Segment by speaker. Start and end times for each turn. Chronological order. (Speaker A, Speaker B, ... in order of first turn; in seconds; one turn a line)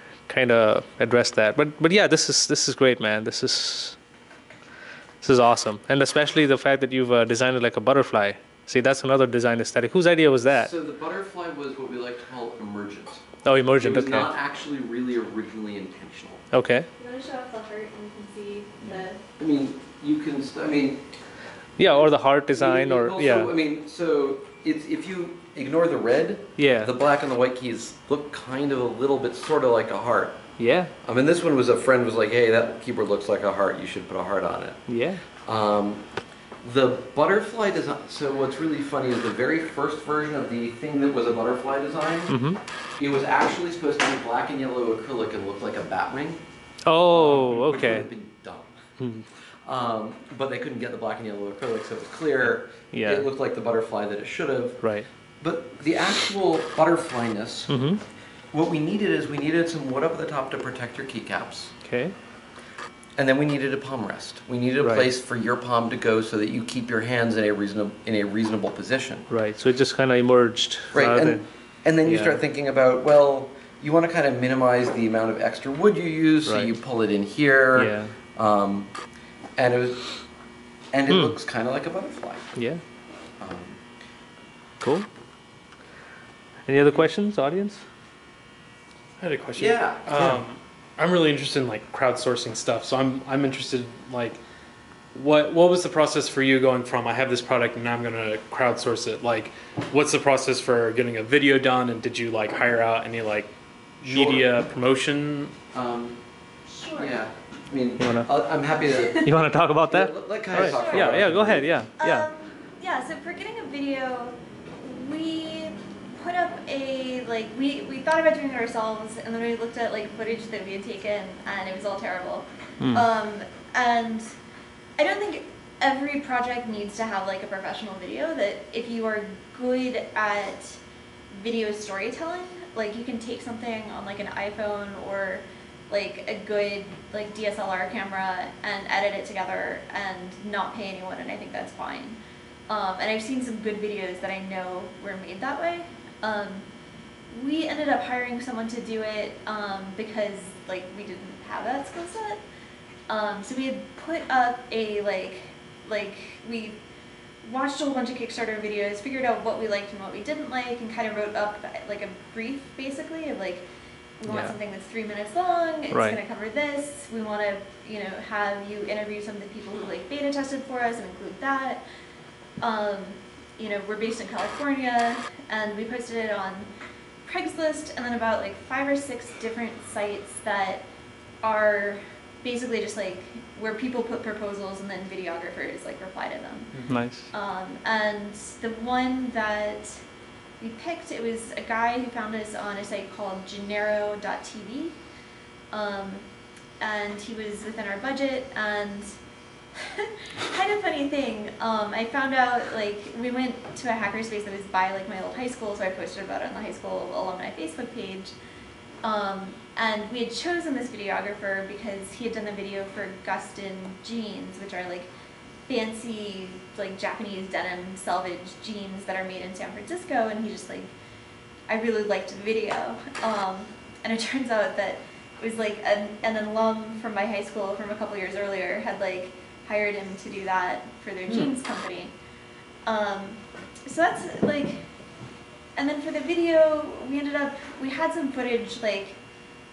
Speaker A: 0.3-4.0
Speaker A: 5.2-10.7
Speaker B: 10.5-16.4
Speaker A: 13.4-14.3
Speaker A: 16.5-16.9
Speaker C: 17.0-19.2
Speaker B: 18.8-21.0
Speaker A: 21.8-23.5
Speaker B: 21.8-30.5
Speaker A: 26.6-26.9
Speaker A: 30.6-30.9
Speaker B: 31.0-34.8
Speaker A: 34.9-35.2
Speaker B: 35.5-36.0
Speaker B: 36.6-42.4
Speaker A: 42.3-42.6
Speaker B: 43.0-46.4
Speaker A: 46.9-48.1
Speaker B: 47.1-48.7
Speaker A: 49.0-49.2
Speaker B: 49.6-54.9
Speaker A: 52.9-53.2
Speaker A: 54.8-55.1
Speaker B: 55.4-57.8
Speaker A: 57.7-58.0
Speaker B: 58.5-61.8
Speaker A: 61.8-62.1
Speaker B: 63.2-69.3
Speaker A: 64.8-65.1
Speaker A: 69.3-71.4
Speaker B: 70.9-78.9
Speaker A: 72.0-72.4
Speaker A: 76.4-76.7
Speaker A: 77.7-78.1
Speaker B: 79.6-80.1
Speaker B: 80.9-82.6
Speaker A: 81.1-81.3
Speaker A: 82.5-82.8
Speaker B: 83.4-83.8
Speaker A: 84.8-85.1
Speaker A: 86.7-87.8
Speaker D: 89.2-94.4
Speaker B: 89.5-90.2
Speaker D: 95.1-105.5
Speaker B: 104.1-104.5
Speaker B: 105.7-106.2
Speaker C: 106.7-107.2
Speaker B: 106.9-109.3
Speaker A: 108.0-108.3
Speaker C: 108.9-109.2
Speaker A: 109.2-112.3
Speaker B: 109.9-111.7
Speaker C: 110.5-111.2
Speaker C: 112.0-124.3
Speaker C: 125.0-146.7
Speaker C: 147.3-152.4
Speaker C: 153.1-156.8
Speaker C: 157.4-163.7
Speaker C: 164.2-171.8
Speaker A: 164.3-164.5
Speaker A: 165.9-166.2
Speaker C: 172.6-176.7
Speaker C: 177.2-180.8
Speaker C: 181.4-190.0
Speaker A: 186.9-187.3
Speaker C: 190.6-194.9
Speaker C: 195.7-196.2
Speaker C: 196.8-199.1
Speaker C: 199.8-208.3
Speaker C: 209.0-215.1
Speaker C: 215.7-220.9
Speaker C: 221.7-232.1
Speaker C: 232.8-234.8
Speaker C: 235.8-239.2